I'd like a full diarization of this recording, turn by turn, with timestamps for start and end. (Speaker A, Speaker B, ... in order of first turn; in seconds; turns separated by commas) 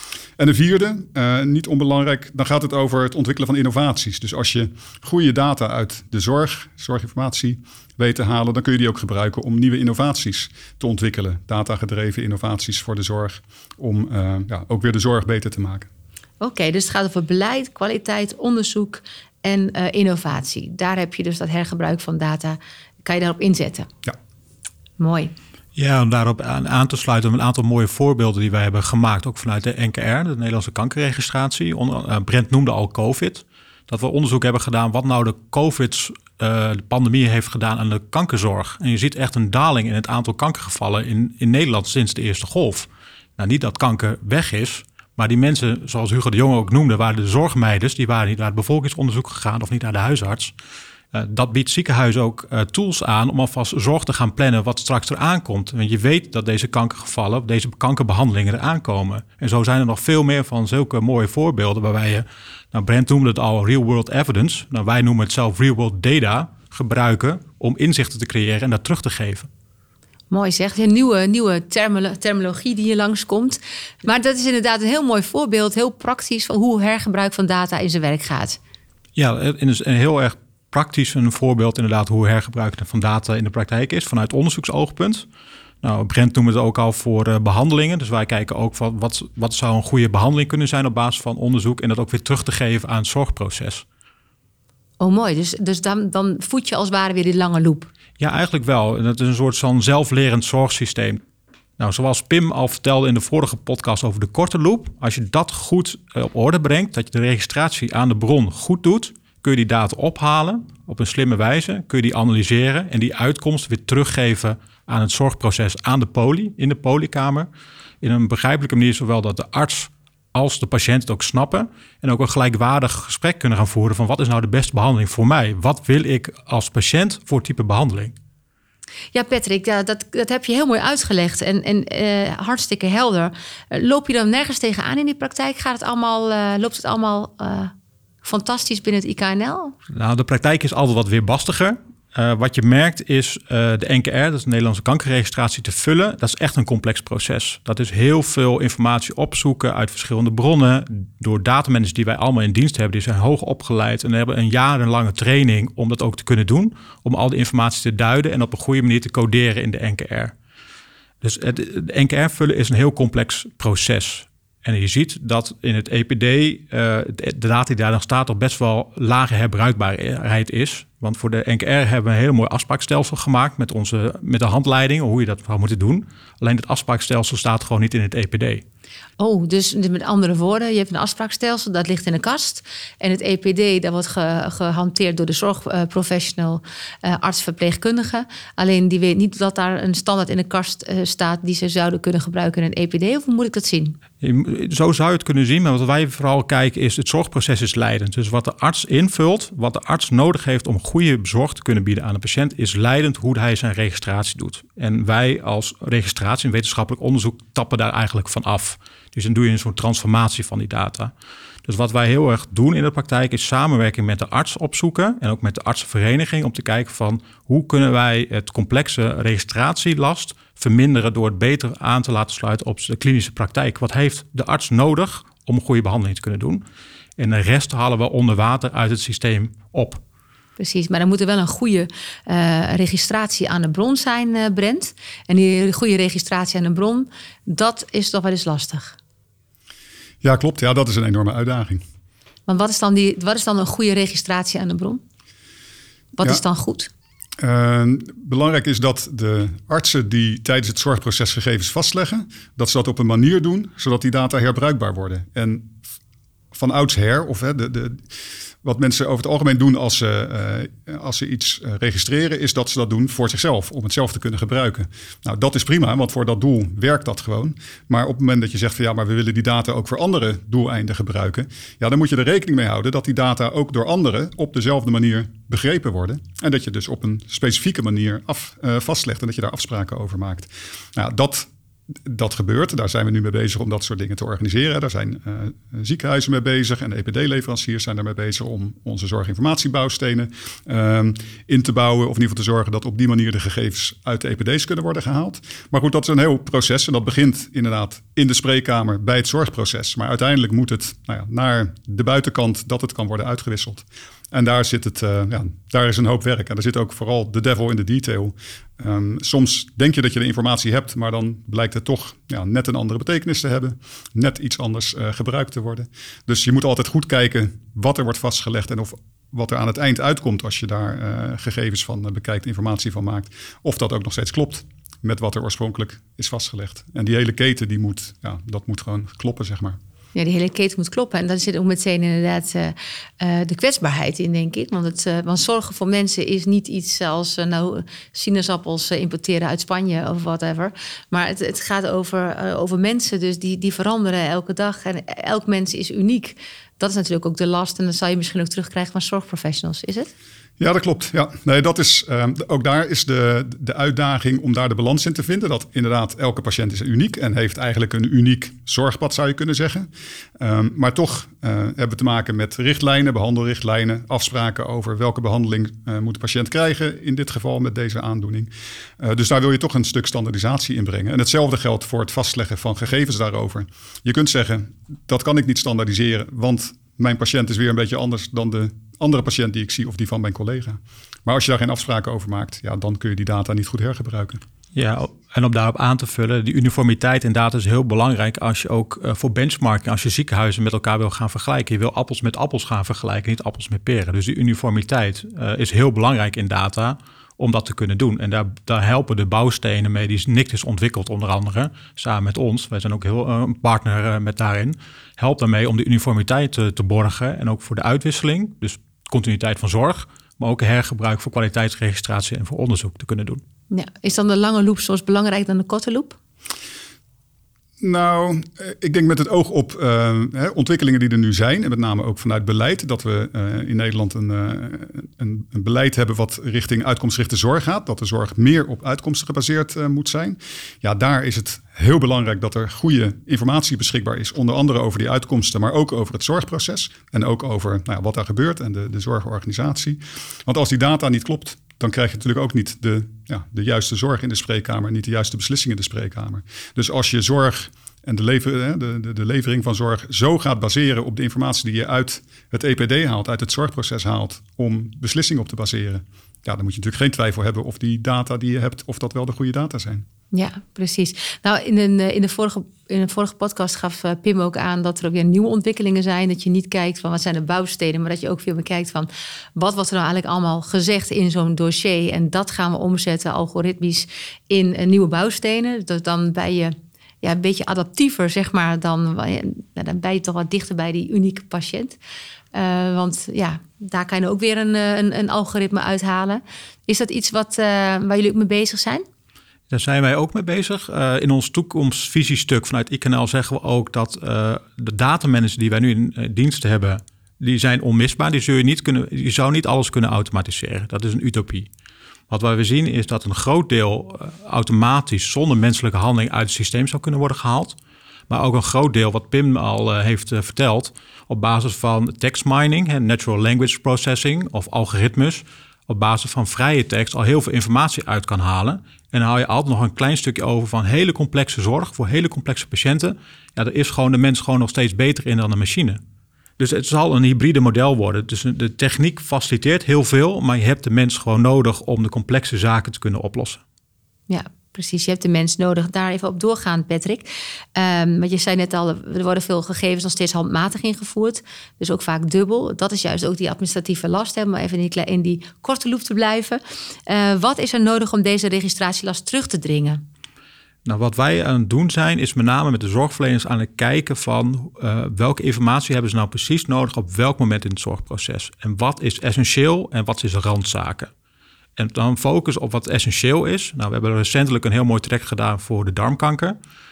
Speaker A: 0.4-15.9, Speaker B: 16.4-23.9, Speaker B: 25.0-25.3, Speaker C: 25.8-50.5, Speaker C: 51.1-69.5, Speaker B: 70.3-78.6, Speaker C: 79.2-85.2, Speaker C: 85.8-93.8, Speaker B: 95.0-97.9, Speaker C: 98.2-101.2, Speaker C: 101.8-117.5, Speaker C: 118.0-128.2, Speaker B: 129.1-137.7, Speaker B: 138.2-139.8, Speaker C: 139.9-160.3, Speaker C: 161.2-178.6, Speaker B: 179.2-194.0, Speaker C: 194.2-211.1, Speaker C: 211.7-226.6, Speaker C: 227.2-230.0, Speaker B: 230.6-239.0, Speaker A: 240.2-241.8, Speaker B: 242.5-245.0, Speaker B: 246.2-246.9, Speaker A: 247.4-255.8, Speaker A: 256.5-258.1, Speaker A: 258.6-329.8, Speaker B: 330.1-350.1, Speaker A: 350.6-359.9, Speaker A: 360.4-384.4, Speaker C: 384.7-413.4, Speaker B: 413.7-416.2, Speaker A: 417.8-460.1, Speaker B: 460.3-482.0, Speaker B: 482.5-489.0, Speaker C: 489.7-501.7, Speaker C: 502.3-507.8, Speaker C: 508.3-526.0, Speaker C: 526.6-533.6, Speaker B: 534.3-550.0, Speaker C: 550.9-561.1, Speaker C: 561.8-566.6